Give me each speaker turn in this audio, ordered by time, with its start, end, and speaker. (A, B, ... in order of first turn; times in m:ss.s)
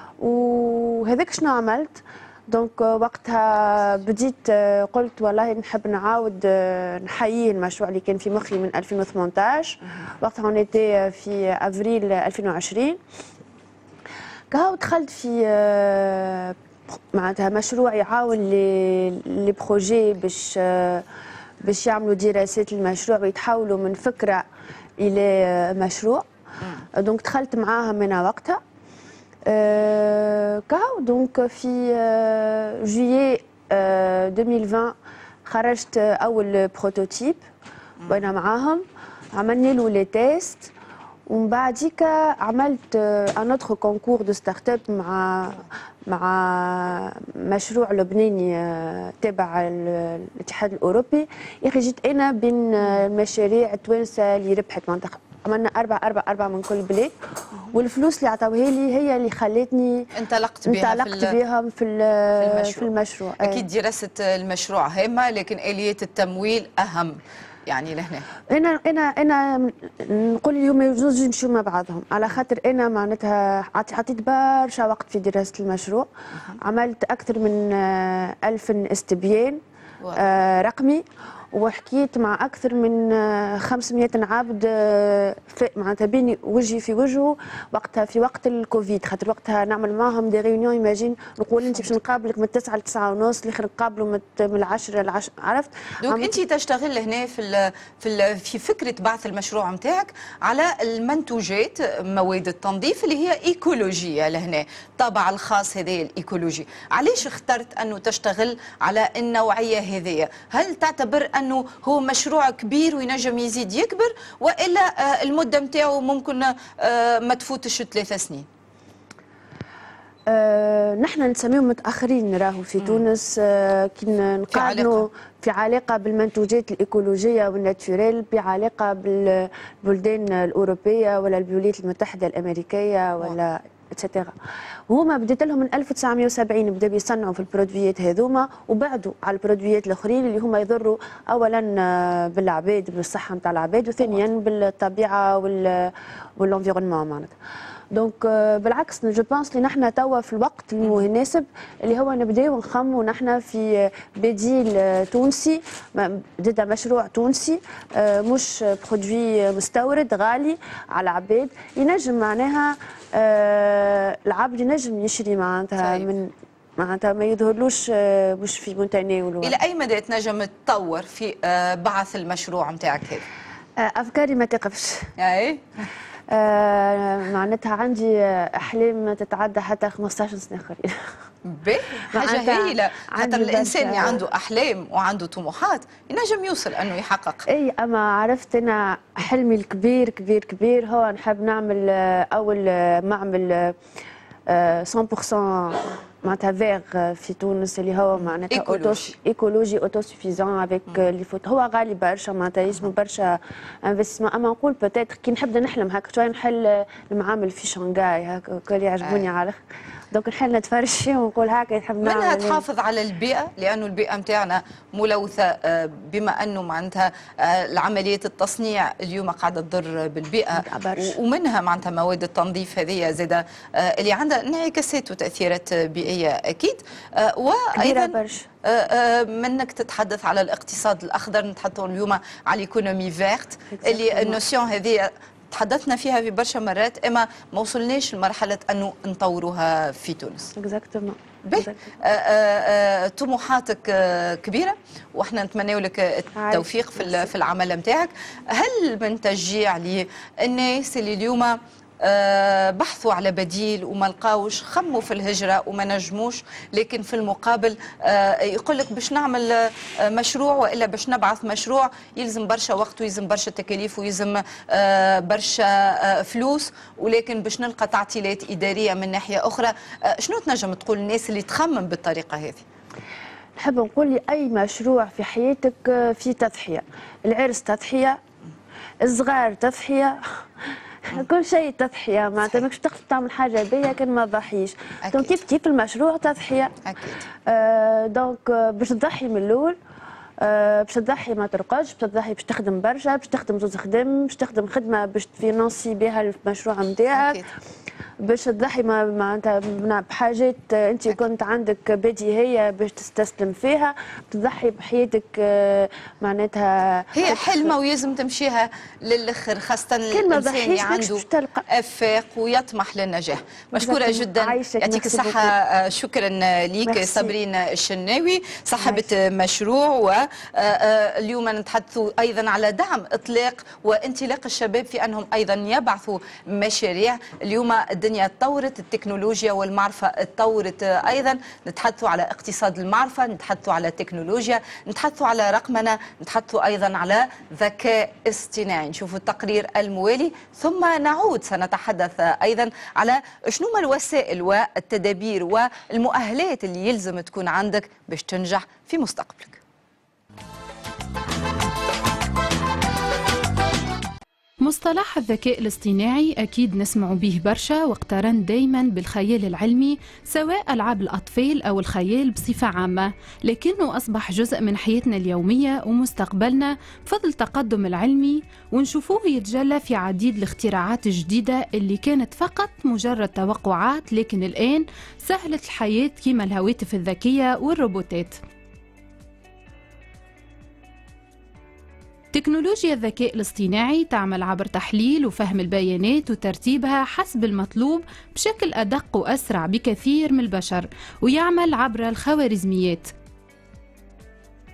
0:00.2-0:13.0 A
0:14.5-0:16.6 A
0:17.1-0:21.0 A
0:21.6-0:24.4 A
0:25.0-0:26.3 A
0:27.0-0:28.6 A
0:29.4-0:37.4 A
0:38.0-0:38.3 B
0:38.1-0:40.7 A
0:41.3-0:57.1 A
0:57.7-1:00.1 A
1:00.1-1:01.3 B
1:00.6-1:03.6 A
1:02.4-1:02.9 B
1:03.4-1:08.2 B
1:08.5-1:16.1 A
1:16.6-1:19.6 A
1:20.1-1:36.4 A
1:31.7-1:32.0 B
1:36.0-1:58.5 B
2:00.3-2:14.3 A
2:04.5-2:05.0 B
2:14.9-2:27.3 A
2:27.9-2:49.6 A
2:45.8-2:46.1 B
2:49.4-2:53.2 B
2:53.8-2:55.1 A
2:55.2-2:55.6 B
2:56.3-3:01.0 A
3:01.4-3:07.4 B
3:02.1-3:04.2 A
3:07.5-3:13.8 A
3:14.5-3:32.6 A
3:18.5-3:19.1 B
3:29.0-3:29.3 B
3:32.0-4:00.5 B
3:40.5-3:41.2 A
3:47.7-3:48.5 A
3:53.8-3:54.4 A
4:00.5-4:01.9 A
4:01.4-4:32.6 B
4:06.4-4:07.3 A
4:33.6-4:38.2 A
4:39.0-4:40.2 A
4:41.1-4:46.7 A
4:45.0-4:45.4 B
4:46.8-4:47.2 B
4:47.5-4:49.8 A
4:50.4-4:57.4 A
4:57.1-4:57.5 B
4:58.2-5:07.7 A
5:07.2-5:49.6 B
5:10.1-5:11.6 A
5:13.7-5:15.5 A
5:16.8-5:17.3 A
5:18.8-5:19.1 A
5:54.6-6:18.4 C
6:22.3-6:33.1 C